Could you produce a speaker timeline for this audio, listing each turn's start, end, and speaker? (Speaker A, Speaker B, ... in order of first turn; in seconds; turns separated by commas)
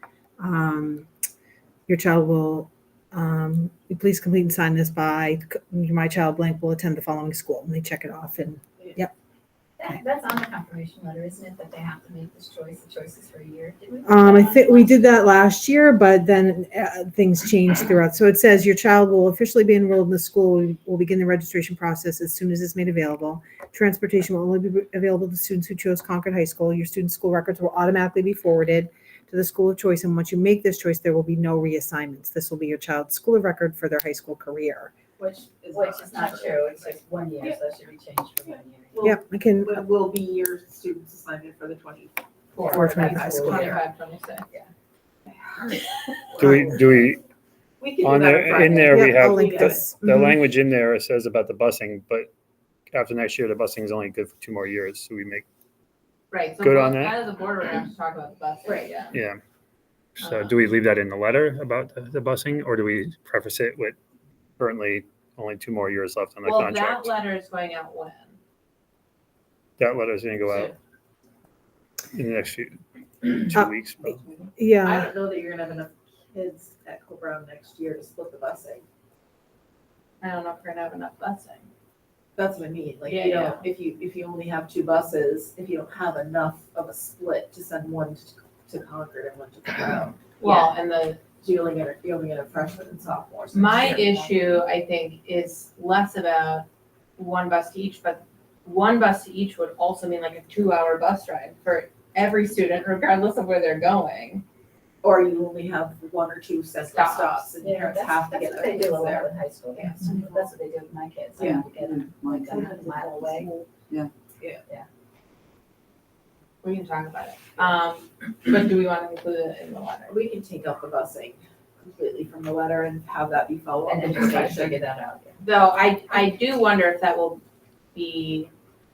Speaker A: 0.4-1.1, Speaker A: 1.9-9.1, Speaker B: 9.8-15.3, Speaker A: 14.1-34.9, Speaker C: 35.2-37.6, Speaker B: 35.7-39.1, Speaker C: 38.5-43.8, Speaker A: 39.0-39.8, Speaker D: 42.6-44.5, Speaker B: 42.6-43.6, Speaker A: 42.7-43.8, Speaker C: 45.3-47.0, Speaker E: 46.4-47.2, Speaker C: 47.8-49.9, Speaker E: 48.0-52.3, Speaker A: 48.9-50.4, Speaker E: 52.9-55.5, Speaker D: 56.3-59.2, Speaker E: 56.6-57.2, Speaker C: 58.7-59.0, Speaker E: 59.1-59.4, Speaker E: 60.2-64.0, Speaker D: 60.2-60.5, Speaker E: 64.6-67.1, Speaker D: 66.5-68.4, Speaker E: 69.8-70.7, Speaker E: 72.1-74.2, Speaker A: 74.6-75.1, Speaker C: 74.8-78.8, Speaker D: 80.2-81.7, Speaker C: 82.4-90.7, Speaker D: 83.1-83.7, Speaker D: 90.4-91.2, Speaker C: 91.4-94.3, Speaker D: 93.5-104.4, Speaker C: 105.0-110.3, Speaker D: 106.9-107.5, Speaker B: 107.6-113.5, Speaker C: 111.4-111.7, Speaker E: 111.9-112.5, Speaker C: 112.5-113.7, Speaker D: 116.6-120.1, Speaker C: 120.1-124.8, Speaker B: 123.8-125.4, Speaker D: 125.4-127.4, Speaker D: 127.9-128.5